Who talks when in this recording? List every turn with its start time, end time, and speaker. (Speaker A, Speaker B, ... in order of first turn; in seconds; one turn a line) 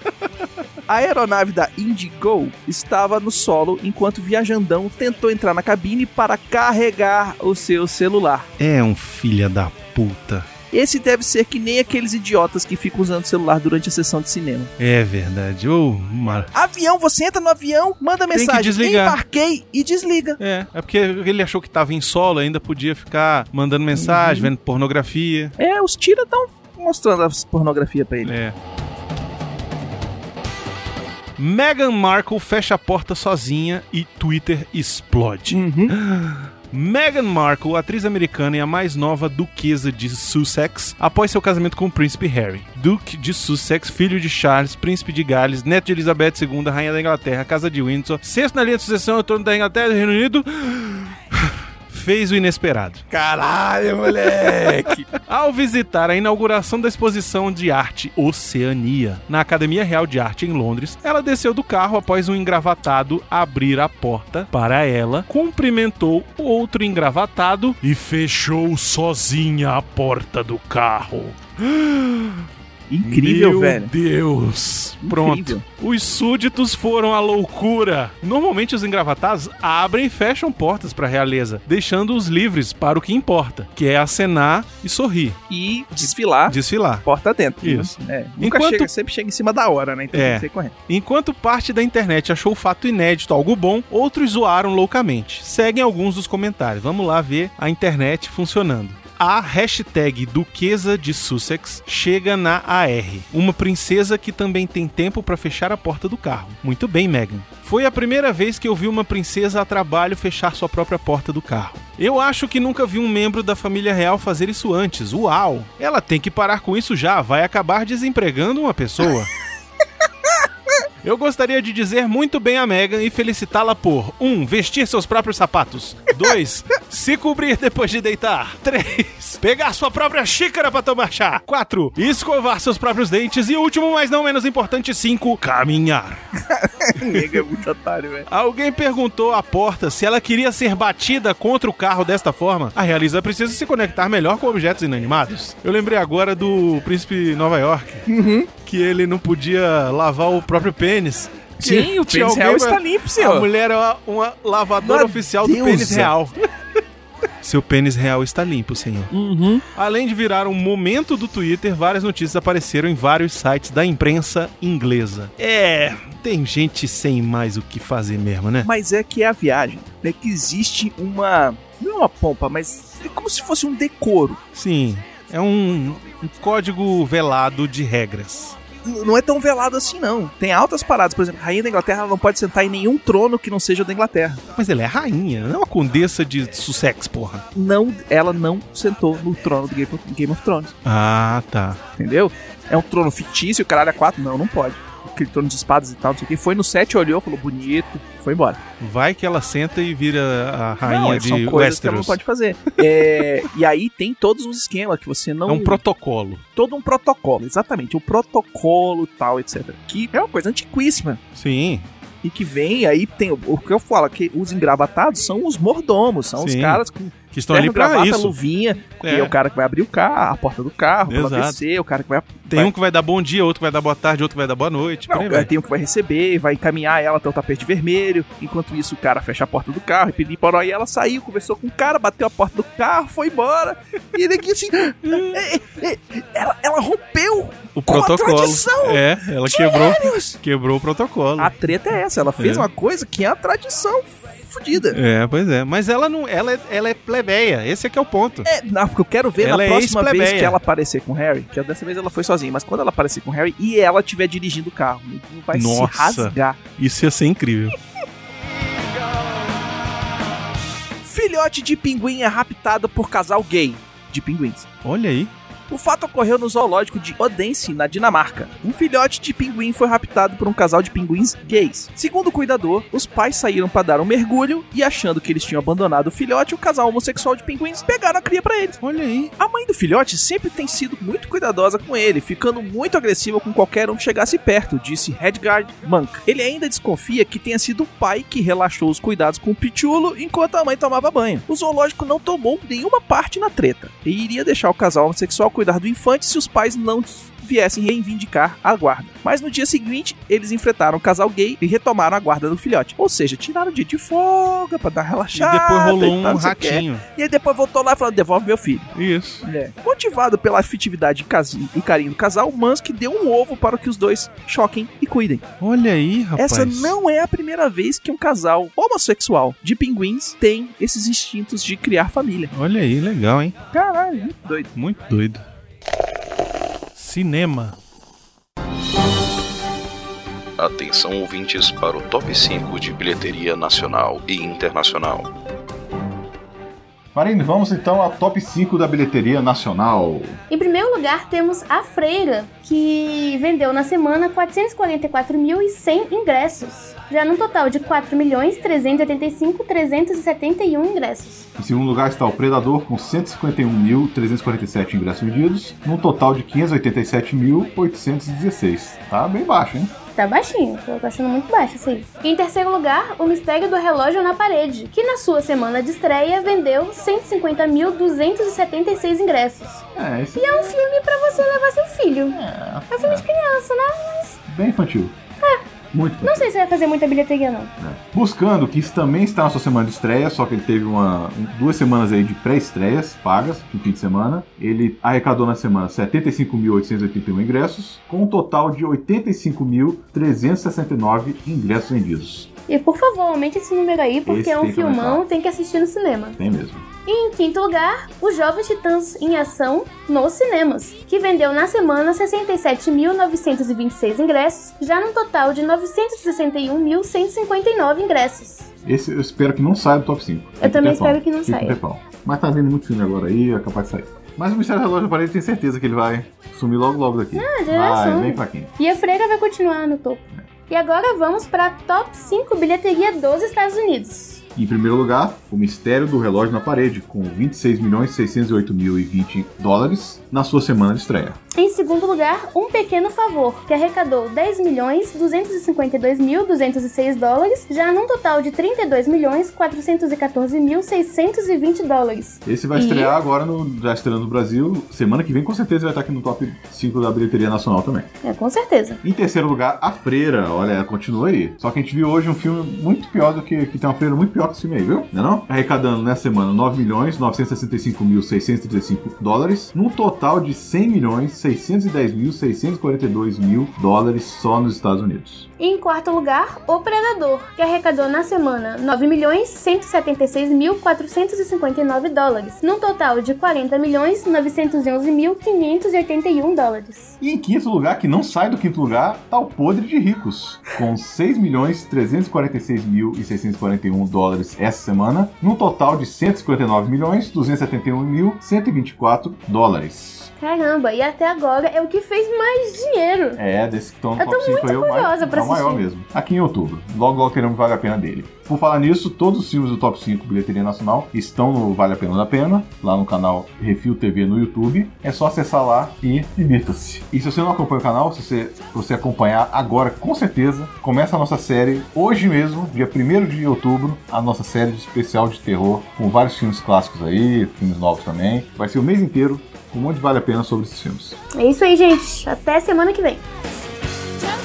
Speaker A: 0.9-8.5
Speaker B: 8.6-10.5
Speaker A: 10.7-14.7
Speaker B: 14.8-16.5
Speaker A: 16.5-20.4
Speaker B: 18.3-19.2
Speaker B: 20.4-25.6
Speaker A: 23.9-24.5
Speaker A: 25.6-28.3
Speaker B: 28.2-28.6
Speaker B: 31.4-72.5
Speaker A: 35.5-36.0
Speaker A: 54.3-55.0
Speaker A: 72.9-73.9
Speaker B: 73.0-85.4
Speaker A: 75.0-75.6
Speaker A: 85.5-90.7
Speaker B: 86.5-87.0
Speaker B: 87.6-88.9
Speaker B: 90.1-119.3
Speaker B: 121.0-136.2
Speaker A: 136.6-138.3
Speaker B: 137.0-137.4
Speaker B: 138.3-148.1
Speaker A: 148.1-148.5
Speaker B: 148.6-156.4
Speaker A: 151.6-153.5
Speaker A: 154.8-156.1
Speaker B: 157.4-159.1
Speaker A: 159.1-159.6
Speaker B: 159.8-168.7
Speaker A: 168.6-174.4
Speaker B: 174.6-178.6
Speaker A: 178.8-184.4
Speaker B: 184.6-187.4
Speaker A: 187.6-190.7
Speaker B: 190.8-191.8
Speaker A: 192.0-198.6
Speaker B: 198.8-202.2
Speaker A: 200.8-205.8
Speaker B: 202.9-203.3
Speaker B: 205.5-206.4
Speaker A: 206.6-211.2
Speaker B: 211.3-211.9
Speaker A: 212.2-222.7
Speaker B: 216.4-218.4
Speaker B: 219.0-219.3
Speaker B: 221.1-221.6
Speaker B: 222.5-225.5
Speaker A: 225.1-240.4
Speaker B: 235.1-235.5
Speaker B: 237.8-241.6
Speaker A: 241.4-245.0
Speaker B: 242.4-242.7
Speaker B: 244.7-248.5
Speaker A: 248.4-256.6
Speaker B: 249.4-250.6
Speaker B: 255.5-257.8
Speaker A: 261.0-264.7
Speaker B: 264.8-265.3
Speaker A: 265.7-278.8
Speaker B: 278.8-279.3
Speaker A: 279.4-308.9
Speaker B: 305.3-307.0
Speaker B: 308.9-309.5
Speaker A: 309.4-315.4
Speaker B: 315.6-316.9
Speaker A: 316.4-322.5
Speaker B: 322.5-323.6
Speaker A: 323.7-324.7
Speaker B: 324.8-325.4
Speaker B: 327.0-327.8
Speaker C: 330.6-335.3
Speaker D: 337.1-340.4
Speaker E: 340.5-351.5
Speaker D: 351.6-359.9
Speaker E: 360.1-369.9
Speaker D: 369.9-370.7
Speaker E: 370.4-374.4
Speaker D: 372.4-373.3
Speaker D: 374.5-375.2
Speaker D: 375.9-376.5
Speaker E: 376.2-377.7
Speaker D: 377.8-392.5
Speaker E: 392.7-396.4
Speaker D: 394.3-395.2
Speaker D: 396.4-396.9
Speaker E: 397.1-408.7
Speaker D: 408.9-418.7
Speaker E: 410.6-411.8
Speaker E: 417.4-424.4
Speaker D: 424.6-431.4
Speaker E: 431.6-443.2
Speaker D: 442.4-448.1
Speaker E: 448.2-449.0
Speaker D: 449.0-465.5
Speaker E: 465.6-477.2
Speaker D: 477.2-490.3
Speaker E: 490.4-493.4
Speaker D: 493.4-521.2
Speaker E: 494.2-495.9
Speaker E: 521.3-523.2